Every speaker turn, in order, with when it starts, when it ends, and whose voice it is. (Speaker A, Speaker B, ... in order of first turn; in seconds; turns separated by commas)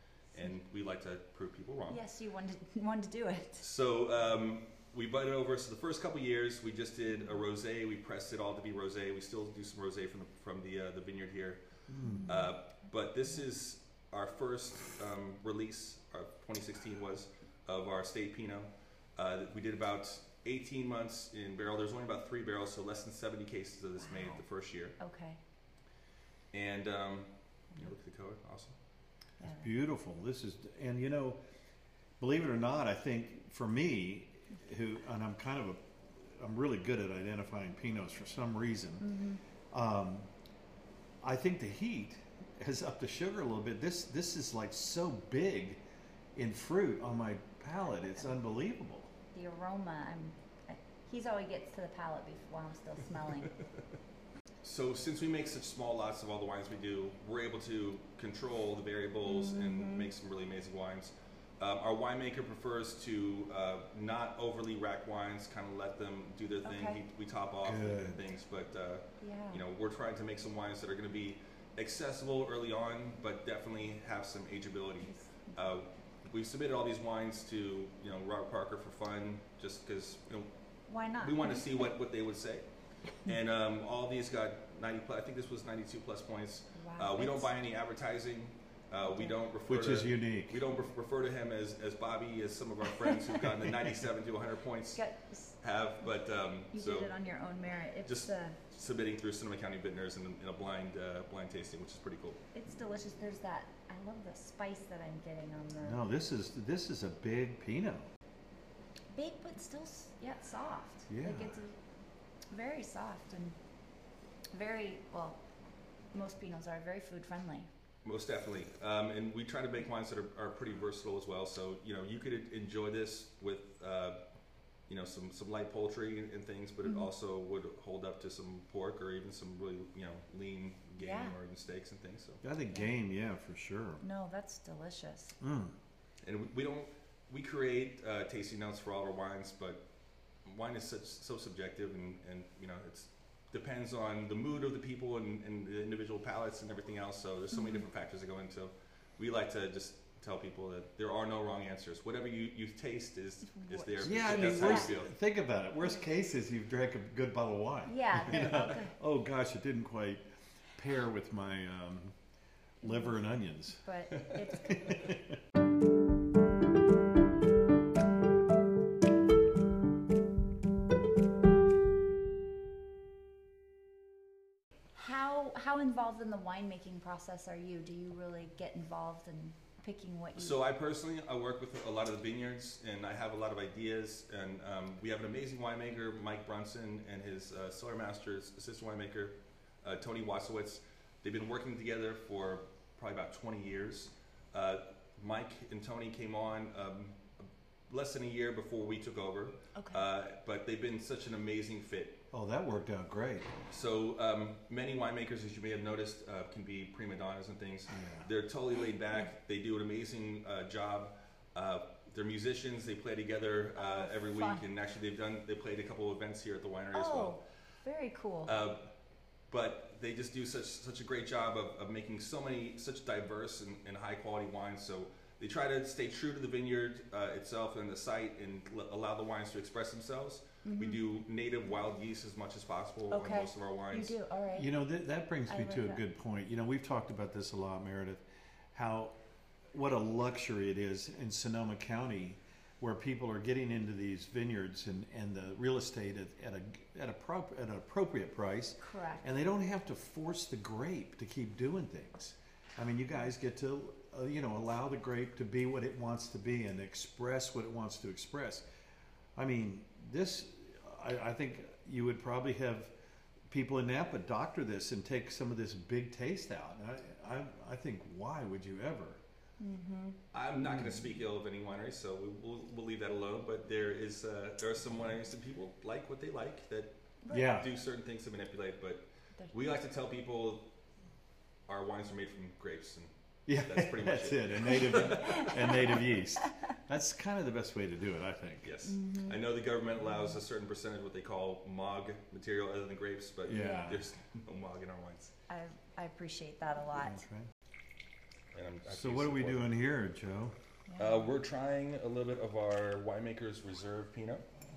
Speaker A: 0.3-2.0, Speaker B: 1.9-3.6, Speaker A: 3.6-11.7, Speaker C: 11.9-12.3, Speaker B: 12.1-12.5, Speaker A: 12.2-25.0, Speaker B: 25.0-25.4, Speaker A: 26.5-28.8, Speaker B: 29.4-29.7, Speaker C: 29.4-31.4, Speaker C: 32.2-39.1, Speaker B: 39.0-39.4, Speaker C: 39.7-40.3, Speaker C: 41.2-45.8, Speaker C: 46.4-49.1, Speaker B: 49.3-53.5, Speaker A: 54.6-80.5, Speaker B: 59.3-60.1, Speaker B: 66.7-67.0, Speaker C: 67.6-68.2, Speaker B: 69.2-69.6, Speaker B: 75.1-75.6, Speaker B: 80.9-81.7, Speaker A: 81.2-95.0, Speaker B: 86.8-87.5, Speaker B: 89.0-89.4, Speaker C: 89.7-90.6, Speaker B: 95.0-95.5, Speaker A: 95.6-97.2, Speaker B: 96.7-98.6, Speaker A: 98.1-102.4, Speaker B: 102.5-106.0, Speaker C: 105.8-108.1, Speaker B: 109.2-111.8, Speaker C: 111.1-111.5, Speaker B: 112.5-113.6, Speaker B: 114.5-115.4, Speaker B: 116.1-117.7, Speaker A: 118.0-124.2, Speaker A: 124.9-132.4, Speaker B: 126.8-127.1, Speaker B: 131.0-131.3, Speaker C: 132.4-134.0, Speaker B: 134.0-135.3, Speaker C: 135.4-135.8, Speaker A: 136.2-139.8, Speaker A: 140.4-155.1, Speaker B: 147.5-147.8, Speaker B: 153.5-154.9, Speaker C: 154.0-160.2, Speaker B: 157.9-158.9, Speaker C: 160.8-162.2, Speaker C: 162.8-163.8, Speaker B: 162.8-163.1, Speaker B: 163.8-164.9, Speaker C: 164.5-165.4, Speaker B: 174.9-180.6, Speaker A: 180.4-197.3, Speaker A: 197.9-202.2, Speaker B: 199.8-200.0, Speaker C: 202.3-203.5, Speaker A: 203.7-217.4, Speaker C: 207.9-208.3, Speaker B: 213.8-214.6, Speaker B: 216.9-218.5, Speaker A: 218.5-218.9, Speaker A: 219.5-234.2, Speaker B: 230.6-231.0, Speaker B: 233.1-234.7, Speaker C: 234.6-239.1, Speaker B: 235.5-236.0, Speaker C: 239.7-258.6, Speaker B: 248.8-249.3, Speaker C: 259.4-262.9, Speaker C: 263.5-269.2, Speaker B: 269.6-270.2, Speaker A: 270.3-280.7, Speaker C: 270.7-271.0, Speaker B: 277.2-277.5, Speaker C: 277.3-277.7, Speaker A: 281.7-285.8, Speaker C: 283.5-288.7, Speaker B: 284.9-285.8, Speaker A: 288.6-295.3, Speaker B: 288.9-289.4, Speaker C: 293.5-294.1, Speaker B: 293.5-294.0, Speaker B: 295.5-297.2, Speaker C: 296.9-297.5, Speaker A: 298.5-299.8, Speaker C: 298.9-300.6, Speaker B: 300.9-301.3, Speaker A: 301.0-304.4